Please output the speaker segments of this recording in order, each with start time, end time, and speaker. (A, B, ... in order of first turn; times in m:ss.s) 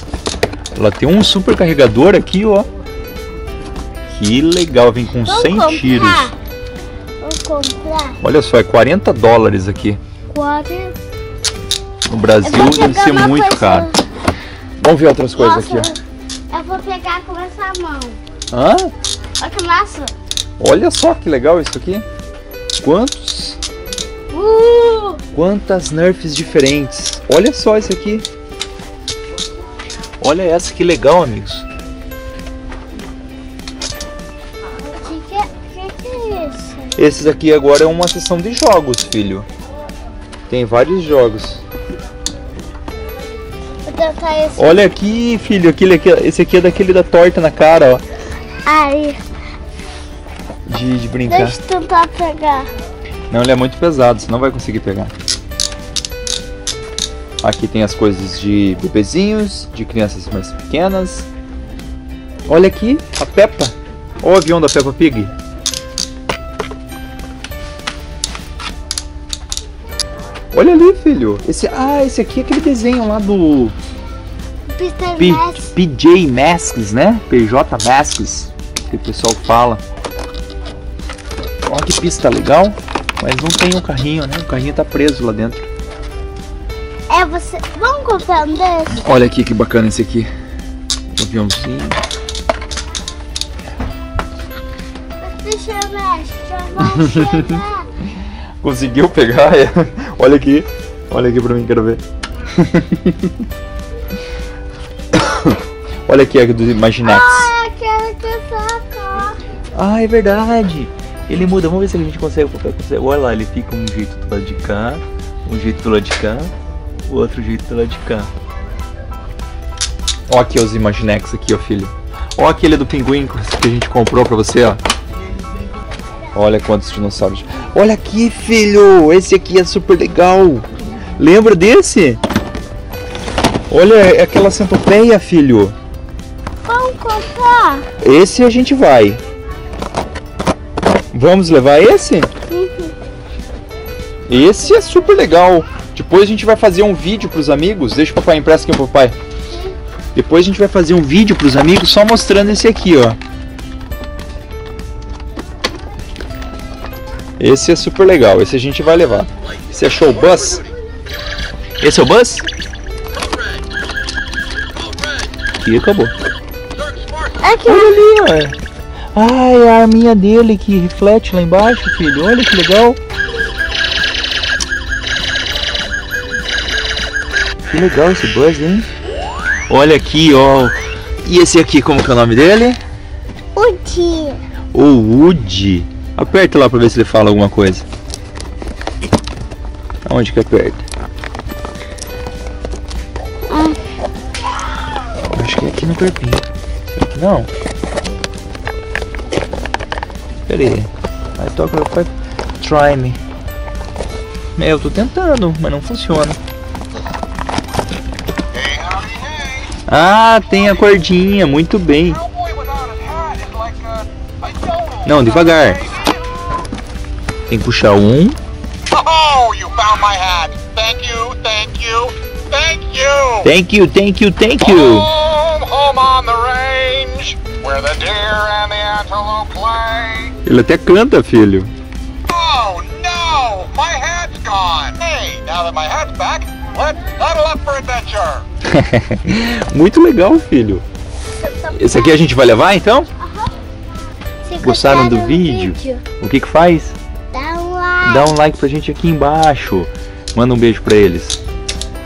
0:00.8-0:02.7 A
0:04.1-0:06.3 A
0:05.2-0:06.4 B
0:07.2-0:08.2 B
0:08.2-0:10.0 A
0:10.3-0:11.0 B
0:12.1-0:13.9 A
0:12.4-0:14.0 B
0:14.8-0:15.9 A
0:15.3-0:18.2 B
0:18.5-0:18.9 A
0:19.4-0:20.1 B
0:20.6-0:22.0 A
0:22.8-0:23.6 A
0:24.3-0:25.2 B
0:25.3-0:28.2 A
0:30.2-0:31.7 A
0:34.8-0:37.0 B
0:37.0-0:39.4 A
0:40.5-0:41.6 A
0:43.8-0:44.8 B
0:44.6-0:48.0 A
0:48.6-0:49.2 B
0:50.7-0:51.6 A
0:51.3-0:52.7 B
0:53.3-0:55.1 A
0:57.4-1:01.3 A
1:02.5-1:05.3 A
1:10.5-1:13.7 A
1:14.7-1:15.7 B
1:15.2-1:19.8 A
1:21.6-1:25.7 A
1:27.1-1:29.0 B
1:29.0-1:30.3 A
1:31.1-1:32.0 A
1:35.2-1:37.9 B
1:36.9-1:37.6 A
1:38.6-1:43.3 A
1:45.1-1:47.5 A
1:47.0-1:49.4 B
1:49.7-1:56.5 A
1:57.0-1:58.3 A
2:00.3-2:04.8 A
2:06.3-2:12.2 A
2:13.7-2:15.7 A
2:16.6-2:17.9 B
2:18.0-2:19.2 A
2:21.1-2:22.3 A
2:22.5-2:22.9 B
2:24.3-2:29.1 A
2:29.5-2:29.8 B
2:30.1-2:33.2 A
2:37.4-2:40.6 A
2:41.8-2:42.5 A
2:45.6-2:46.1 A
2:46.9-2:47.2 C
2:47.4-2:48.0 B
2:47.6-2:48.6 A
2:49.1-2:53.0 A
2:57.6-2:58.9 A
2:59.7-3:02.8 A
3:03.5-3:04.4 B
3:04.7-3:07.8 A
3:10.0-3:10.8 A
3:13.5-3:13.8 B
3:15.3-3:17.5 A
3:20.5-3:23.2 A
3:24.6-3:26.4 A
3:28.5-3:29.7 C
3:29.9-3:32.2 A
3:32.2-3:36.4 C
3:35.0-3:36.0 A
3:37.5-3:38.4 A
3:38.9-3:43.4 C
3:43.4-3:45.1 A
3:44.6-3:50.4 C
3:50.4-3:51.7 A
3:52.3-3:58.4 C
3:58.6-4:00.8 A
4:01.4-4:02.2 B
4:01.7-4:03.1 A
4:03.2-4:03.5 B
4:04.4-4:06.0 B
4:04.6-4:07.0 A
4:07.3-4:08.3 B
4:08.0-4:11.4 A